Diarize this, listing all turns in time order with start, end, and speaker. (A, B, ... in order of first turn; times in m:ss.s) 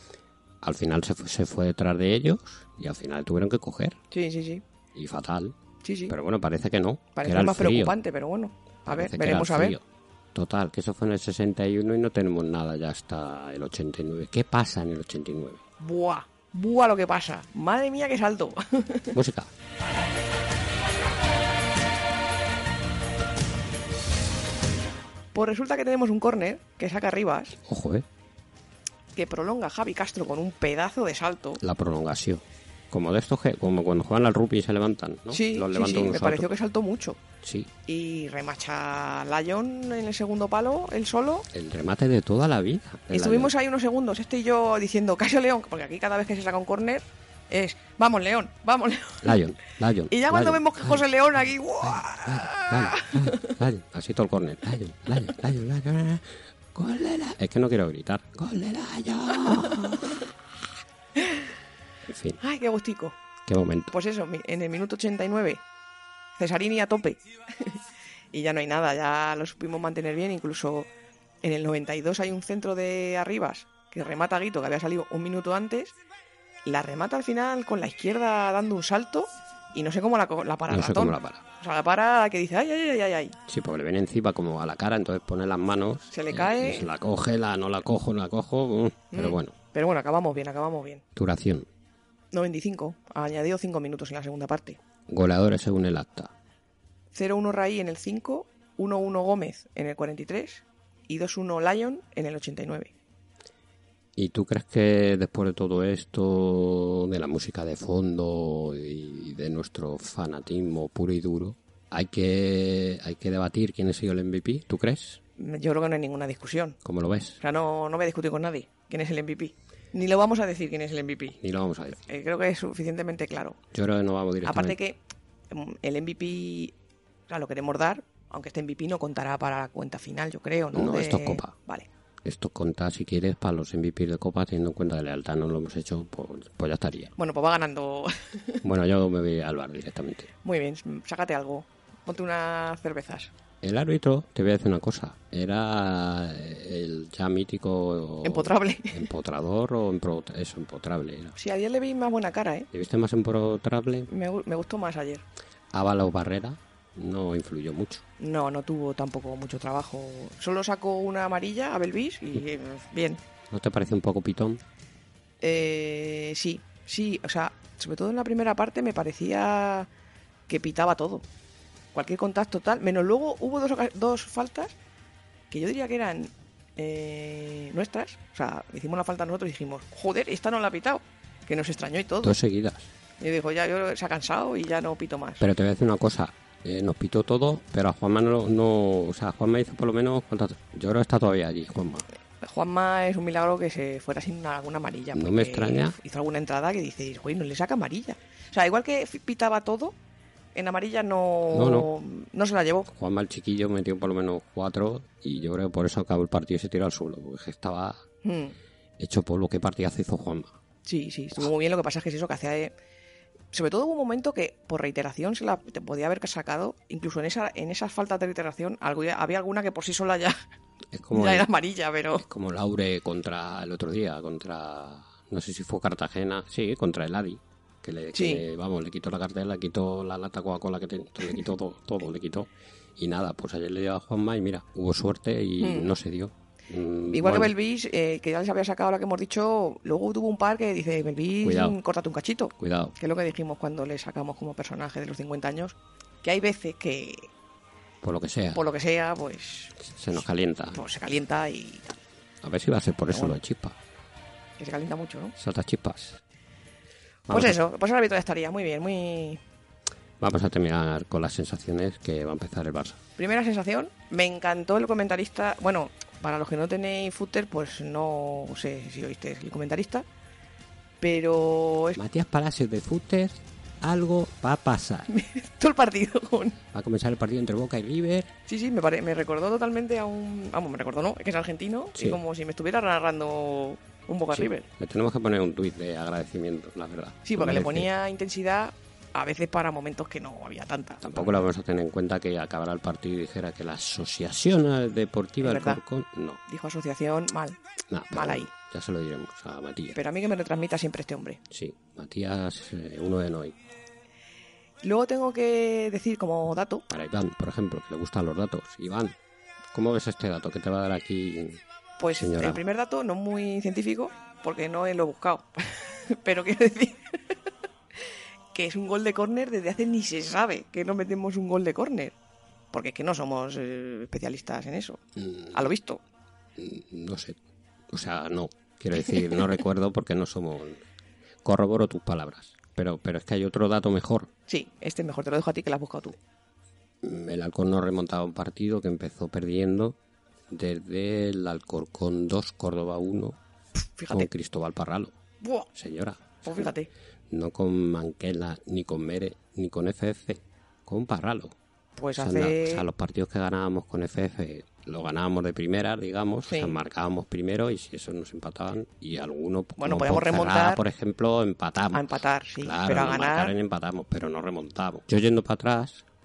0:00.6-0:04.0 A
0:04.1-0:04.6 B
0:04.9-0:05.6 A
0:05.8-0:06.2 B
0:06.1-0:08.0 A
0:07.2-0:09.8 B
0:08.9-0:09.8 A
0:10.3-0:15.6 A
0:15.8-0:19.2 B
0:19.1-0:19.5 A
0:25.3-0:27.6 B
0:27.6-0:28.0 A
0:29.2-0:31.6 B
0:31.6-0:36.5 A
0:35.3-0:37.2 B
0:37.4-0:37.7 A
0:37.9-0:41.5 B
0:41.5-0:43.5 A
0:43.1-0:49.4 B
0:49.2-0:51.0 A
0:50.1-0:53.6 B
0:51.8-1:00.2 A
0:59.5-1:00.2 B
1:01.2-1:01.4 B
1:02.0-1:02.4 A
1:02.4-1:03.2 B
1:03.5-1:03.9 A
1:03.9-1:05.6 B
1:06.4-1:07.8 B
1:08.3-1:10.9 B
1:11.4-1:16.0 B
1:16.6-1:23.4 B
1:20.7-1:21.4 A
1:23.5-1:29.6 A
1:26.1-1:26.9 B
1:29.1-1:31.0 B
1:31.2-1:31.7 A
1:32.3-1:34.8 B
1:35.1-1:36.3 A
1:37.1-1:42.9 B
1:44.2-1:55.2 A
1:55.4-1:56.8 B
1:56.8-1:57.4 A
1:57.4-2:01.4 B
2:01.4-2:02.0 A
2:02.0-2:03.6 B
2:03.7-2:04.8 A
2:04.4-2:06.7 B
2:07.3-2:11.9 B
2:10.7-2:11.6 A
2:12.2-2:17.2 A
2:17.2-2:18.6 B
2:18.6-2:20.3 A
2:20.4-2:23.3 B
2:23.6-2:31.4 A
2:28.2-2:29.0 B
2:31.4-2:32.7 B
2:32.7-2:34.1 A
2:34.1-2:35.2 B
2:35.7-2:38.0 A
2:38.2-2:43.2 B
2:43.5-2:44.6 A
2:45.4-2:49.9 B
2:50.5-2:51.2 B
2:51.9-2:54.8 B
2:55.5-3:02.4 B
3:02.2-3:02.9 A
3:03.2-3:05.5 B
3:05.4-3:12.1 A
3:12.4-3:20.0 B
3:15.1-3:16.0 A
3:20.6-3:22.9 B
3:21.5-3:21.9 A
3:22.9-3:28.0 A
3:28.2-3:28.6 B
3:29.0-3:30.5 A
3:30.9-3:32.7 B
3:33.5-3:40.4 B
3:40.9-3:41.5 A
3:41.1-3:42.3 B
3:42.2-3:57.5 A
3:48.1-3:48.5 B
3:55.6-3:55.9 B
3:57.1-4:07.3 B
4:01.4-4:01.8 A
4:02.6-4:02.9 A
4:08.0-4:08.6 A
4:08.5-4:09.8 B
4:09.8-4:10.8 A
4:10.7-4:12.0 B
4:12.4-4:13.8 A
4:13.1-4:13.4 B
4:14.6-4:15.4 B
4:15.4-4:16.2 A
4:17.3-4:17.6 A
4:17.3-4:19.4 B
4:20.2-4:23.0 A
4:23.2-4:30.1 B
4:31.0-4:32.0 B
4:32.0-4:35.1 A
4:35.1-4:36.6 B
4:36.7-4:38.3 A
4:38.5-4:44.7 B
4:42.0-4:42.2 A
4:44.3-4:47.9 A
4:47.2-4:51.4 B
4:51.0-4:56.4 A
4:55.4-4:55.8 B
4:56.5-4:57.6 B
4:57.9-5:00.0 A
4:58.1-4:58.5 B
4:59.9-5:01.4 B
5:01.5-5:03.6 A
5:04.8-5:06.9 B
5:06.9-5:09.2 A
5:09.7-5:12.6 A
5:12.0-5:17.2 B
5:18.5-5:22.2 B
5:22.7-5:25.0 B
5:25.2-5:25.6 A
5:25.5-5:26.0 B
5:26.6-5:27.4 A
5:27.9-5:30.8 A
5:31.4-5:34.3 A
5:34.5-5:36.2 B
5:37.0-5:40.0 A
5:40.5-5:43.4 A
5:43.8-5:44.3 B
5:44.1-5:45.2 A
5:45.4-5:45.7 B
5:45.7-5:46.7 A
5:46.4-5:46.9 B
5:47.3-5:51.6 A
5:52.0-5:52.9 B
5:52.2-6:02.1 A
5:56.5-5:56.8 B
5:59.8-6:00.8 B
6:01.9-6:03.6 B
6:02.6-6:06.0 A